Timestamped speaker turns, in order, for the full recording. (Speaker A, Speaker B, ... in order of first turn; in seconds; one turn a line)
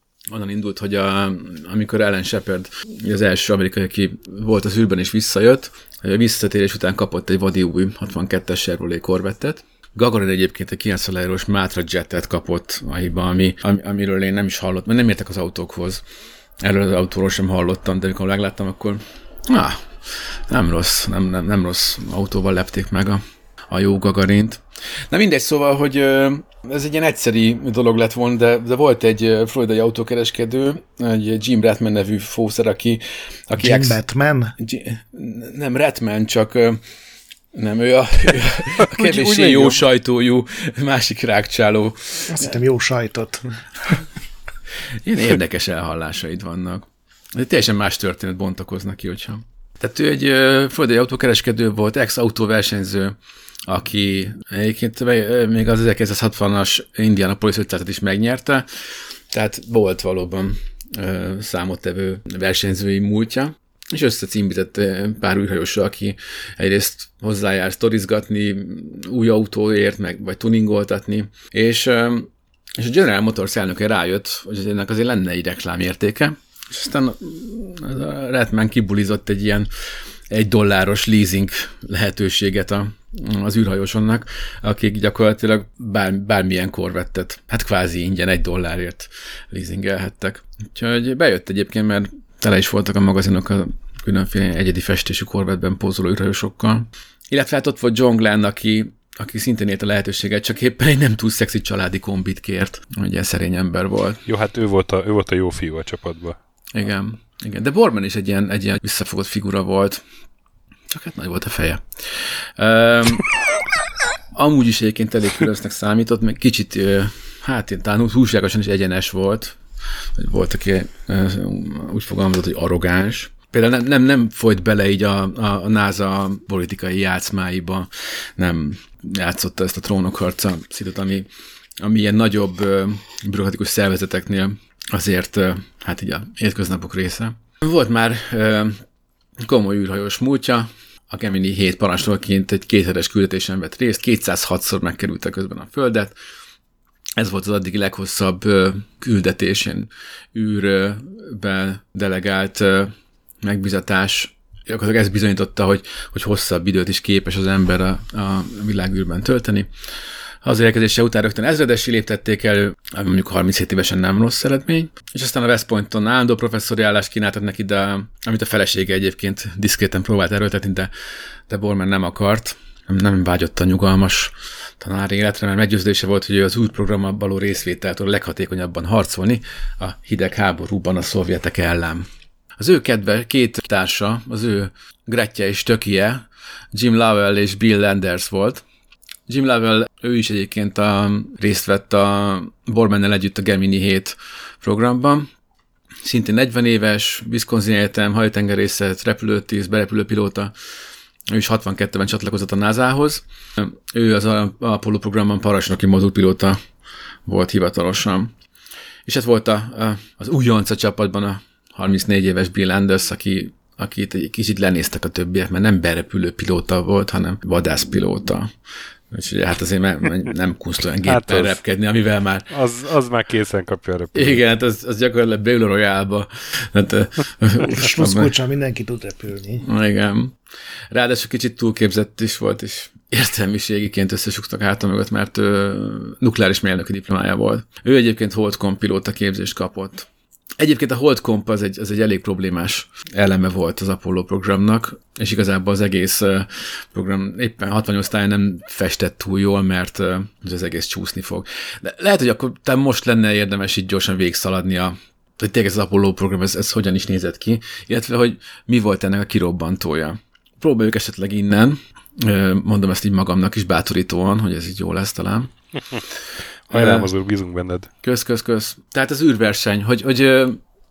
Speaker A: 0.3-16.0
Speaker A: 16.6-34.0
Speaker B: 33.6-34.5
Speaker A: 34.6-36.8
Speaker A: 37.5-42.6
Speaker C: 38.8-39.8
Speaker B: 42.3-44.0
Speaker A: 45.0-58.7
Speaker A: 59.3-79.7
Speaker A: 80.3-104.2
Speaker C: 104.2-106.4
Speaker A: 106.7-110.0
Speaker A: 110.9-113.3
Speaker A: 114.3-119.6
Speaker A: 120.2-131.3
Speaker A: 131.8-138.8
Speaker A: 139.4-146.1
Speaker A: 147.2-159.7
Speaker A: 160.4-170.9
Speaker A: 171.5-182.1
Speaker A: 182.6-188.6
Speaker A: 189.3-195.3
Speaker A: 196.0-200.5
Speaker A: 201.3-206.6
Speaker A: 207.2-208.3
Speaker A: 209.1-218.5
Speaker A: 219.1-222.5
Speaker C: 221.0-221.6
Speaker C: 222.5-224.4
Speaker A: 224.1-228.3
Speaker B: 227.6-229.7
Speaker A: 229.6-230.4
Speaker A: 230.9-240.1
Speaker A: 240.6-265.5
Speaker A: 266.7-267.1
Speaker C: 266.7-267.9
Speaker A: 268.0-270.6